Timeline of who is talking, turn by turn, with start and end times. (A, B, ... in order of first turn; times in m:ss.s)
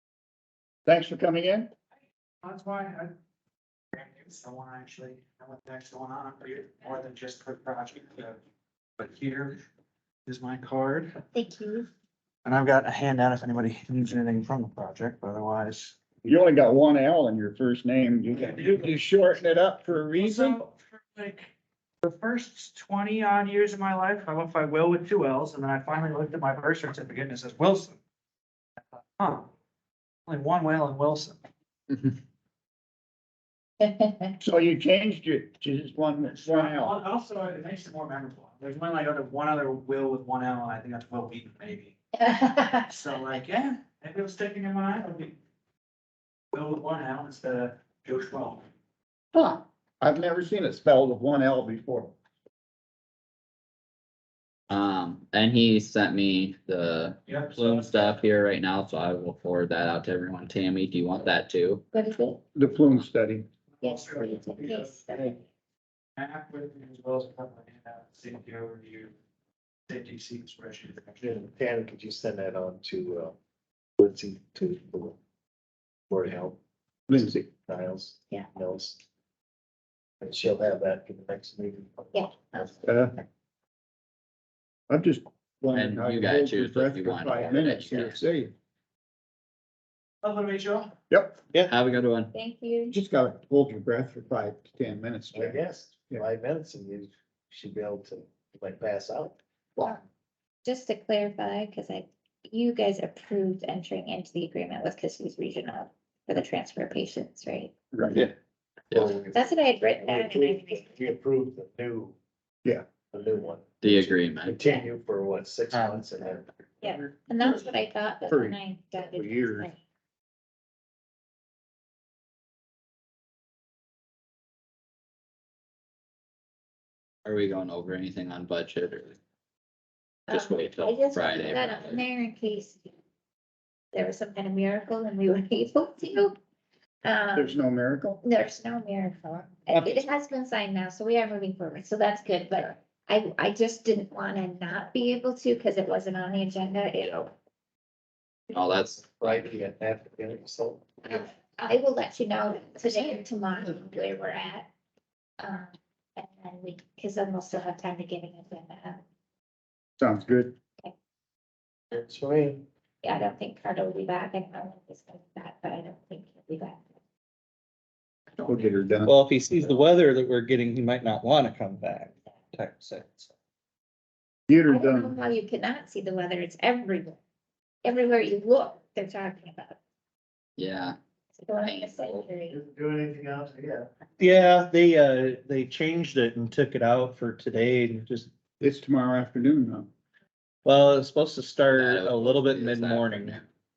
0:00.8-0:01.7 A
0:02.4-0:03.1 B
0:03.9-0:08.4 B
0:09.0-0:09.6 B
0:10.2-0:11.1 B
0:11.3-0:11.9 C
0:12.4-0:16.0 B
0:16.2-0:20.6 A
0:18.3-0:18.9 B
0:20.1-0:21.5 B
0:22.0-0:28.0 B
0:28.9-0:29.5 B
0:30.3-0:31.4 B
0:33.8-0:34.3 C
0:34.4-0:37.0 A
0:36.2-0:42.0 B
0:42.2-0:42.9 C
0:42.9-0:45.4 B
0:46.5-0:48.6 B
0:49.3-0:52.1 A
0:54.7-1:01.8 D
0:57.3-0:58.2 B
1:01.9-1:02.4 C
1:02.5-1:03.5 A
1:03.8-1:04.9 B
1:03.8-1:05.4 C
1:06.2-1:09.1 B
1:09.9-1:11.4 B
1:11.2-1:13.4 E
1:14.0-1:15.2 E
1:16.1-1:16.6 E
1:17.1-1:17.5 A
1:17.6-1:19.0 E
1:20.2-1:22.7 E
1:22.1-1:22.7 C
1:22.8-1:23.2 A
1:24.9-1:28.5 A
1:25.7-1:28.2 D
1:30.2-1:30.9 B
1:31.1-1:31.4 A
1:31.7-1:32.3 D
1:32.3-1:33.0 C
1:32.9-1:35.6 A
1:35.3-1:39.4 E
1:40.6-1:47.7 C
1:47.9-1:48.2 A
1:48.9-1:52.2 E
1:49.3-1:50.9 C
1:53.1-1:56.6 E
1:53.8-1:54.6 D
1:55.7-1:56.1 F
1:56.8-1:59.8 C
1:58.3-1:59.7 A
2:07.2-2:09.2 D
2:10.3-2:12.9 C
2:10.3-2:12.0 D
2:13.9-2:16.4 C
2:17.0-2:17.5 C
2:17.4-2:18.2 A
2:18.2-2:27.3 C
2:28.5-2:29.2 D
2:29.1-2:30.9 E
2:31.0-2:34.7 C
2:35.4-2:39.0 C
2:40.0-2:40.5 A
2:41.9-2:42.6 E
2:43.0-2:46.8 C
2:48.4-2:49.1 A
2:49.0-2:53.3 F
2:54.5-2:55.2 A
2:54.6-2:57.2 C
2:57.8-2:59.8 C
3:00.6-3:01.0 D
3:01.3-3:02.6 C
3:01.6-3:02.2 D
3:02.5-3:03.9 E
3:04.2-3:08.3 F
3:08.6-3:09.9 A
3:10.6-3:13.4 F
3:11.8-3:13.5 D